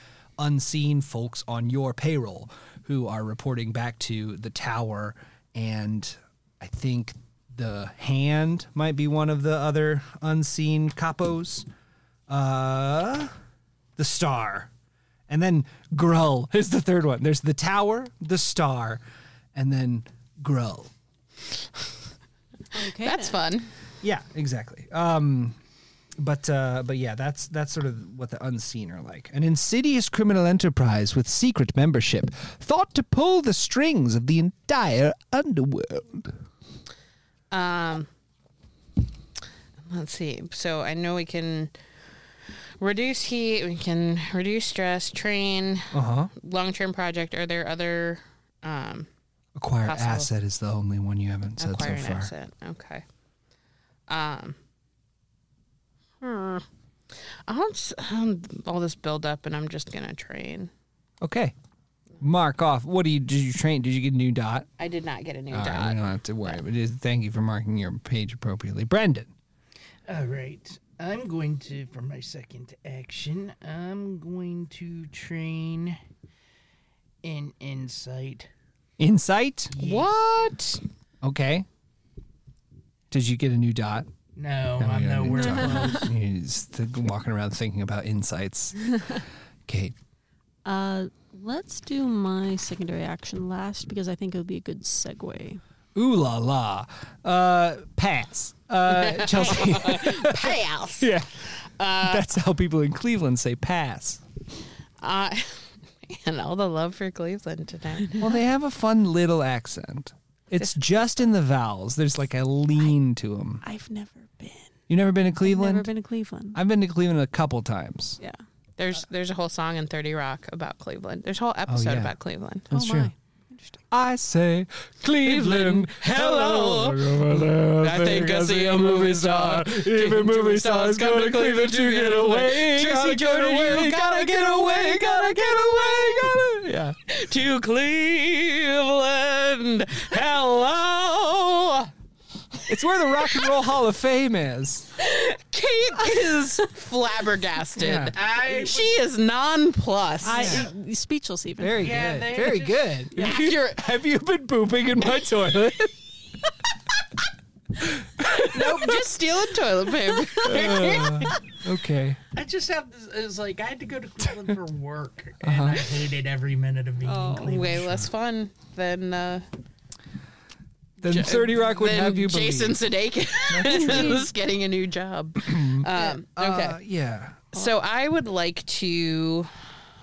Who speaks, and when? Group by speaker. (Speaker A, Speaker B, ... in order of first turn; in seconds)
Speaker A: 0.4-11.7, 12.3-13.3, 14.0-14.7, 15.3-19.0, 19.6-20.9, 24.0-25.6, 26.2-36.4, 45.9-46.3, 49.6-52.3, 61.2-61.5, 62.2-64.7, 65.5-69.3, 79.0-79.8, 81.2-81.7, 83.1-84.1, 84.8-88.8, 89.7-89.9, 96.0-101.3, 102.0-104.2, 108.2-113.6, 114.9-115.9, 116.5-118.2, 121.7-122.1, 122.7-123.1, 123.9-137.0, 142.7-144.9, 147.8-148.1, 150.3-150.7, 151.6-156.0, 157.8-159.0, 160.4-162.2, 165.4-165.9, 171.0-172.8, 173.5-174.2, 175.4-177.4
Speaker B: 22.7-23.4, 85.3-86.1, 90.7-95.6, 113.6-114.7, 115.4-116.6, 122.7-123.8, 150.2-151.9, 167.1-167.6, 173.6-174.3
Speaker C: 22.9-23.7, 37.5-38.1, 39.9-41.7, 42.8-49.1, 49.9-50.3, 51.6-53.0, 54.1-54.6, 56.2-56.7, 57.5-60.7, 64.8-66.6, 79.8-80.8, 98.9-102.2, 105.0-108.3, 118.8-122.7, 125.2-141.9, 145.0-150.7, 153.1-153.8, 158.2-161.4, 167.4-169.5, 171.0-176.8, 177.5-179.5
Speaker D: 70.1-76.0, 77.2-78.5, 79.7-80.1, 84.3-86.1, 148.1-149.0, 151.8-153.0, 162.3-168.1